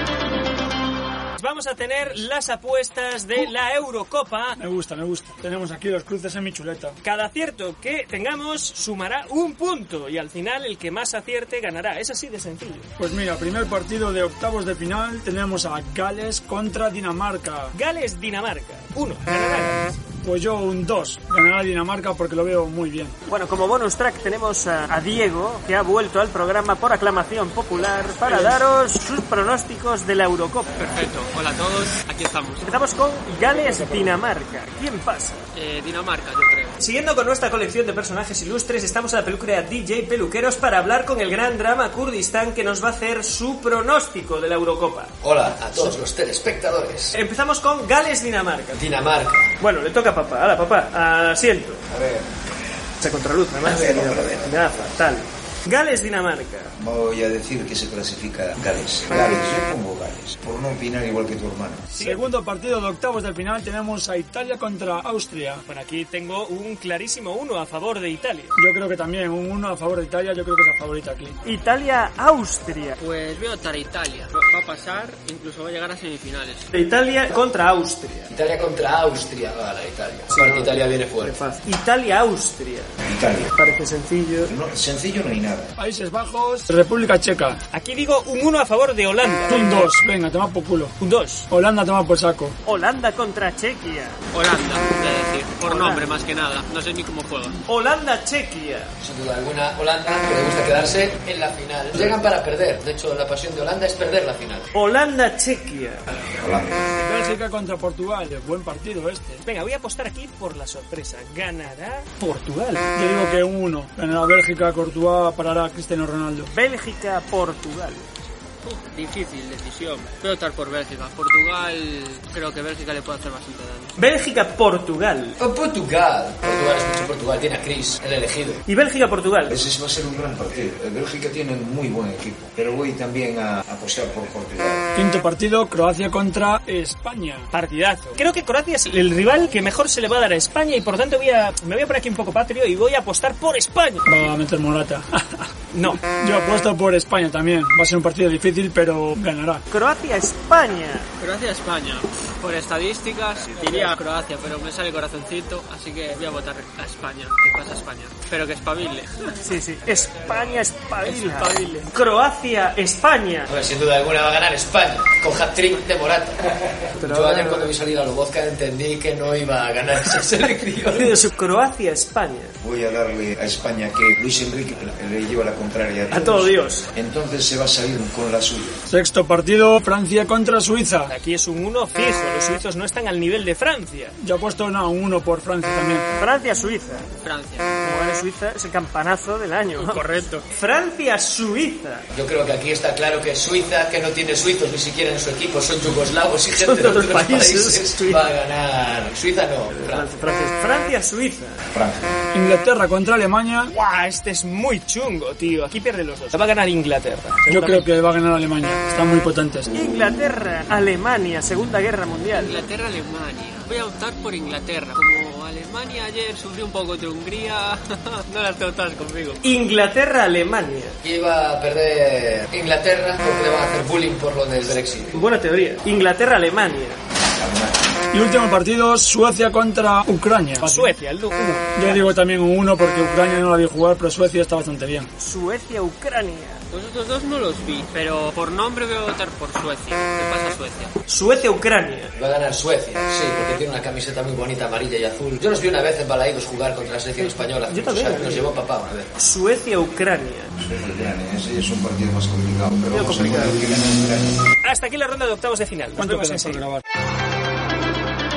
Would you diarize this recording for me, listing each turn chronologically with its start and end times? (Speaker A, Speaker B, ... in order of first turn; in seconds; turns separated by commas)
Speaker A: 1.4-4.6, Speaker B: 4.6-7.0, Speaker A: 7.0-12.9, Speaker B: 13.0-17.8, Speaker A: 17.7-20.0, Speaker B: 20.2-23.2, Speaker A: 23.3-30.8, Speaker B: 28.3-28.6, Speaker C: 30.8-32.8, Speaker A: 32.6-35.5, Speaker B: 33.4-34.2, Speaker C: 35.5-36.8, Speaker A: 36.8-45.2, Speaker D: 45.2-47.1, Speaker A: 47.1-48.9, Speaker D: 48.7-49.5, Speaker A: 49.6-51.8, Speaker E: 51.9-52.3, Speaker A: 53.0-56.7, Speaker E: 53.6-54.6, Speaker E: 56.8-61.9, Speaker A: 61.9-62.2, Speaker B: 62.0-65.7, Speaker A: 65.7-68.6, Speaker B: 68.6-71.4, Speaker A: 71.5-73.0, Speaker C: 73.0-76.7, Speaker A: 76.7-78.3, Speaker D: 78.3-81.3, Speaker A: 80.3-83.0, Speaker E: 83.0-83.5, Speaker A: 83.5-84.5, Speaker E: 84.5-85.7, Speaker B: 85.8-87.6, Speaker A: 87.7-89.9, Speaker B: 89.5-91.0, Speaker A: 91.0-91.5, Speaker B: 91.5-92.6, Speaker A: 92.7-94.2, Speaker C: 94.3-97.6, Speaker A: 95.6-96.2, Speaker A: 97.7-98.9, Speaker D: 99.0-104.7, Speaker A: 104.7-106.1, Speaker E: 106.3-106.9, Speaker B: 107.0-109.4, Speaker A: 109.5-112.9, Speaker B: 113.0-116.5, Speaker A: 116.5-118.1, Speaker C: 118.6-123.9, Speaker A: 124.0-125.4, Speaker D: 125.4-128.6, Speaker A: 128.7-129.5, Speaker E: 129.5-134.9, Speaker B: 134.9-137.5, Speaker A: 137.5-144.2, Speaker B: 144.1-149.7, Speaker A: 145.7-146.0, Speaker A: 149.7-151.1, Speaker C: 151.2-159.3, Speaker A: 153.5-153.9, Speaker A: 159.4-163.5, Speaker C: 161.0-161.9, Speaker D: 163.5-166.4, Speaker A: 167.0-167.7, Speaker D: 167.0-171.1, Speaker A: 170.9-172.6, Speaker E: 172.6-178.8, Speaker A: 176.1-176.9, Speaker B: 178.9-181.1, Speaker A: 181.1-184.2, Speaker B: 184.2-186.1, Speaker A: 186.2-187.1, Speaker C: 187.1-187.7, Speaker A: 187.8-192.1, Speaker C: 189.8-190.4, Speaker D: 192.1-200.1, Speaker A: 196.5-198.2, Speaker A: 199.7-201.6, Speaker E: 201.7-202.2, Speaker B: 202.3-203.7, Speaker A: 203.7-207.9, Speaker B: 207.5-209.7, Speaker A: 209.7-212.6, Speaker C: 212.3-219.4, Speaker A: 219.4-221.0, Speaker D: 221.0-225.2, Speaker A: 225.1-227.0, Speaker E: 227.4-227.9, Speaker B: 228.1-231.0, Speaker A: 230.6-232.1, Speaker B: 231.8-235.1, Speaker A: 235.2-236.6, Speaker C: 236.7-240.9, Speaker A: 241.1-242.1, Speaker D: 242.2-249.1, Speaker A: 247.2-248.5, Speaker A: 249.2-250.5, Speaker E: 250.6-254.4, Speaker A: 252.9-253.6, Speaker A: 254.6-256.6, Speaker B: 256.0-256.8